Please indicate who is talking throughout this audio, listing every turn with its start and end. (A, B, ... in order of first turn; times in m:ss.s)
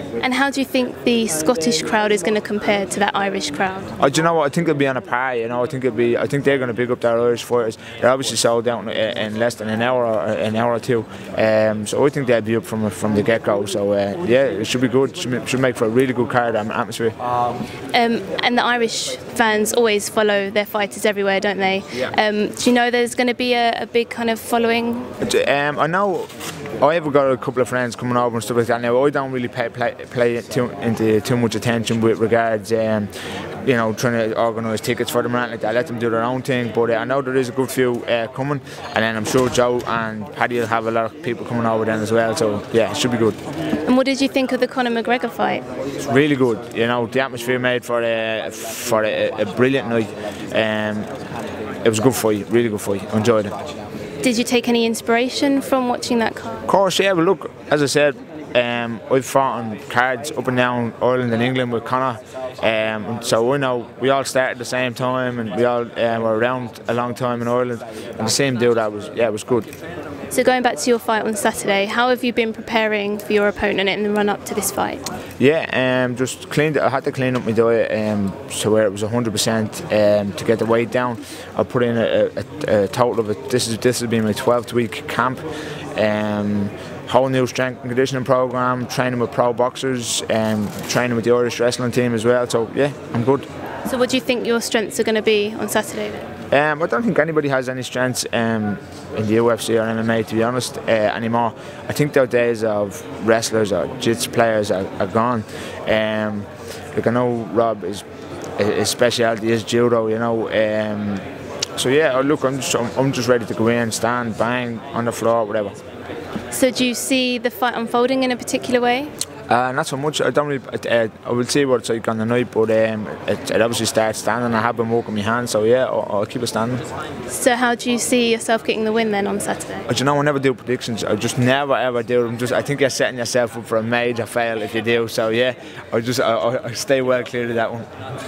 0:00.2-0:03.9 A
0:04.0-0:17.2 B
0:17.9-0:25.1 A
0:25.2-0:33.1 B
0:33.6-0:43.4 B
0:43.8-0:45.6 A
0:46.0-0:51.1 B
0:51.8-0:53.5 B
0:54.2-0:56.7 A
0:56.7-1:09.7 B
1:10.3-1:15.0 A
1:15.4-1:33.5 B
1:33.8-1:36.3 A
1:36.5-1:48.0 B
1:48.6-1:51.2 B
1:51.8-1:55.8 B
1:56.5-1:59.1 A
1:59.5-2:06.8 B
2:07.3-2:09.9 A
2:09.9-2:17.9 B